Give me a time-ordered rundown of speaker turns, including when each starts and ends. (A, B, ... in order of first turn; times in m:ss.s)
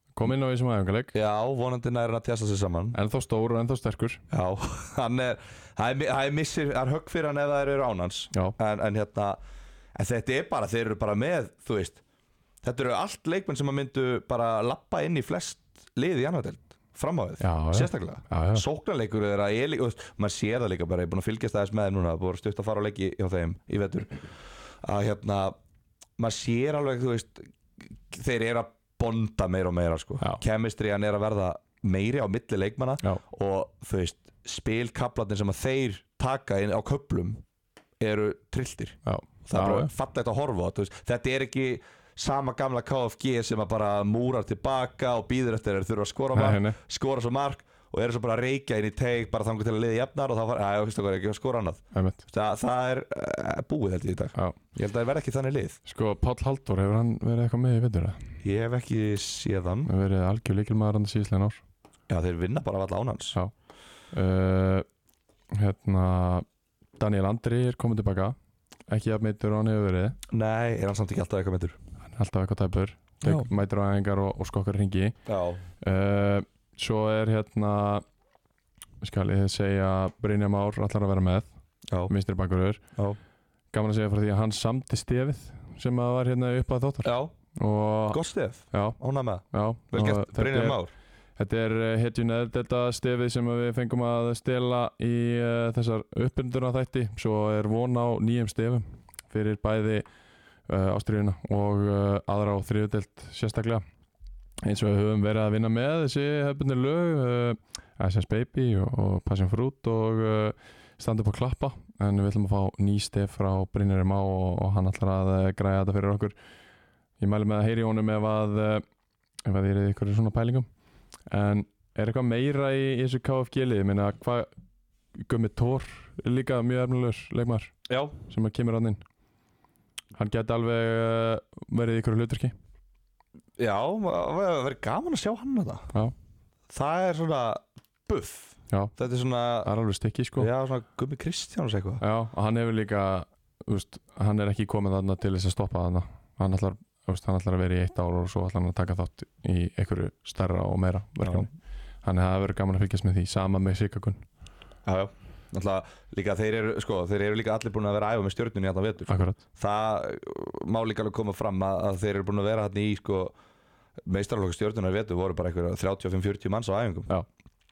0:00.2-0:01.1 A
0:01.1-0:03.0 B
0:02.9-0:04.2 A
0:04.3-0:09.4 B
0:09.9-0:12.0 B
0:12.6-0:24.2 B
0:17.4-0:18.6 A
0:24.8-0:25.6 B
0:26.2-0:37.4 B
0:38.0-0:55.8 B
0:39.0-0:39.9 A
0:46.3-0:46.8 A
0:51.9-0:52.2 A
0:55.8-0:58.2 A
0:58.4-0:59.9 B
0:59.8-1:01.6 A
1:02.1-1:03.4 B
1:04.1-1:04.8 A
1:05.5-1:06.4 A
1:07.0-1:08.4 A
1:08.9-1:10.2 A
1:10.3-1:11.8 B
1:12.1-1:15.2 A
1:13.2-1:13.5 B
1:15.3-1:15.6 B
1:15.8-1:18.0 A
1:19.0-1:21.5 A
1:22.1-1:22.8 A
1:23.7-1:28.2 A
1:27.0-1:27.3 B
1:28.1-1:30.9 B
1:28.7-1:29.0 A
1:29.5-1:30.8 A
1:31.4-1:40.0 A
1:40.7-1:43.8 A
1:44.6-1:56.3 A
1:57.2-1:58.8 A
1:59.4-2:00.7 A
2:01.3-2:04.5 A
2:05.2-2:07.7 A
2:07.9-2:08.2 B
2:08.3-2:09.0 A
2:10.1-2:12.5 A
2:13.6-2:15.9 B
2:16.7-2:19.7 B
2:19.6-2:20.5 A
2:20.4-2:22.0 B
2:22.0-2:31.5 A
2:32.0-2:34.2 A
2:34.8-2:43.3 B
2:39.1-2:39.4 A
2:44.0-2:47.1 B